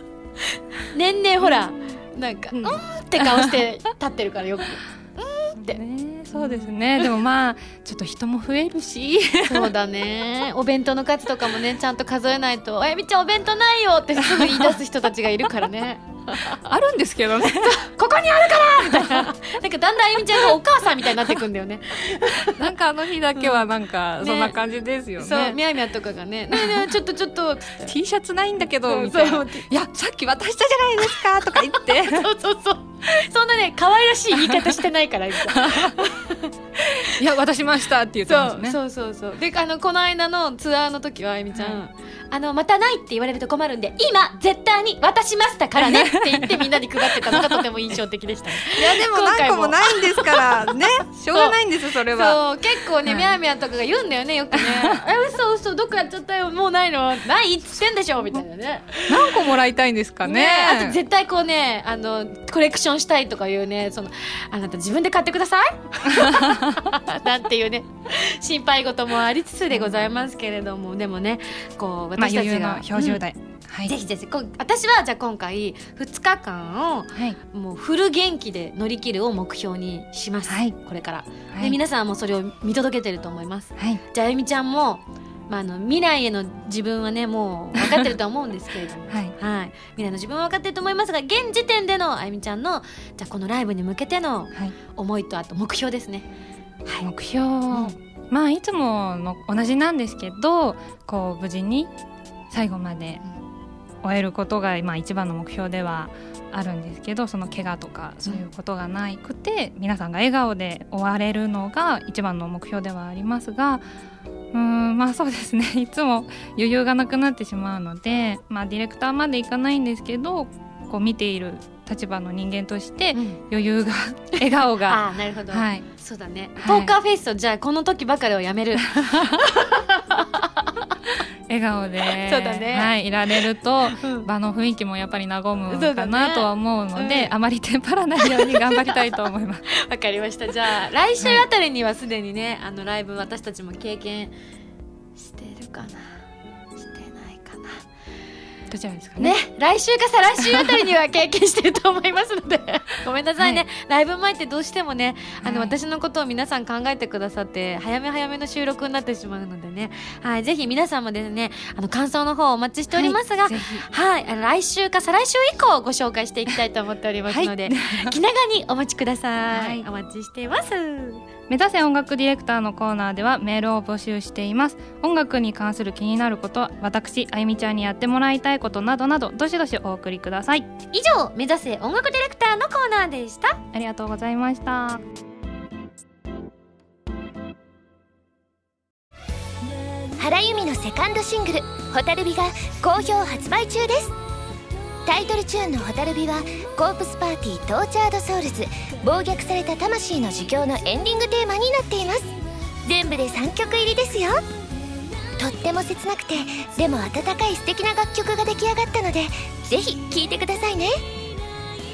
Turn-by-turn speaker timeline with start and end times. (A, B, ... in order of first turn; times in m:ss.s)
0:00.9-0:05.8 A
0:02.6-0:03.6 B
0:05.6-0:09.7 B
0:06.3-0:07.1 A
0:09.4-0:16.6 A
0:14.3-0:14.7 B
0:16.5-0:17.9 B
0:17.6-0:22.7 A
0:18.5-0:19.3 B
0:20.3-0:20.6 B
0:22.4-0:25.6 B
0:23.4-0:23.6 A
0:24.2-0:24.6 A
0:25.2-0:28.0 A
0:26.5-0:26.9 B
0:27.8-0:32.3 B
0:28.9-0:29.6 A
0:31.4-0:37.2 A
0:35.6-0:36.0 B
0:37.0-0:38.8 B
0:38.3-0:59.5 A
0:41.5-0:41.8 B
0:45.8-0:47.6 B
0:48.6-0:52.4 B
0:53.0-0:53.3 B
0:54.5-0:55.0 B
0:59.1-1:01.0 B
1:00.2-1:13.2 A
1:06.2-1:06.8 B
1:09.7-1:10.1 B
1:12.2-1:13.9 B
1:13.8-1:36.3 A
1:20.5-1:20.8 B
1:21.5-1:21.8 B
1:23.8-1:24.0 B
1:29.1-1:29.4 B
1:36.9-1:37.1 A
1:37.0-1:41.9 B
1:42.5-1:43.2 B
1:44.0-1:53.8 B
1:54.5-2:05.9 B
2:03.1-2:03.4 A
2:04.9-2:10.6 A
2:06.6-2:06.9 B
2:11.5-2:19.7 B
2:12.2-2:14.3 A
2:15.7-2:17.3 A
2:18.2-2:19.0 A
2:19.8-2:24.3 A
2:25.2-2:26.2 A
2:26.8-2:27.9 A
2:28.7-2:29.4 B
2:29.2-2:51.2 A
2:35.4-2:35.8 B
2:42.9-2:43.9 B
2:47.3-2:48.2 B
2:49.5-2:49.9 B
2:51.5-3:00.7 B
3:00.9-3:03.6 A
3:03.7-3:05.0 B
3:10.2-3:14.2 C
3:15.1-3:22.3 C
3:22.8-3:24.4 C
3:25.4-3:31.0 C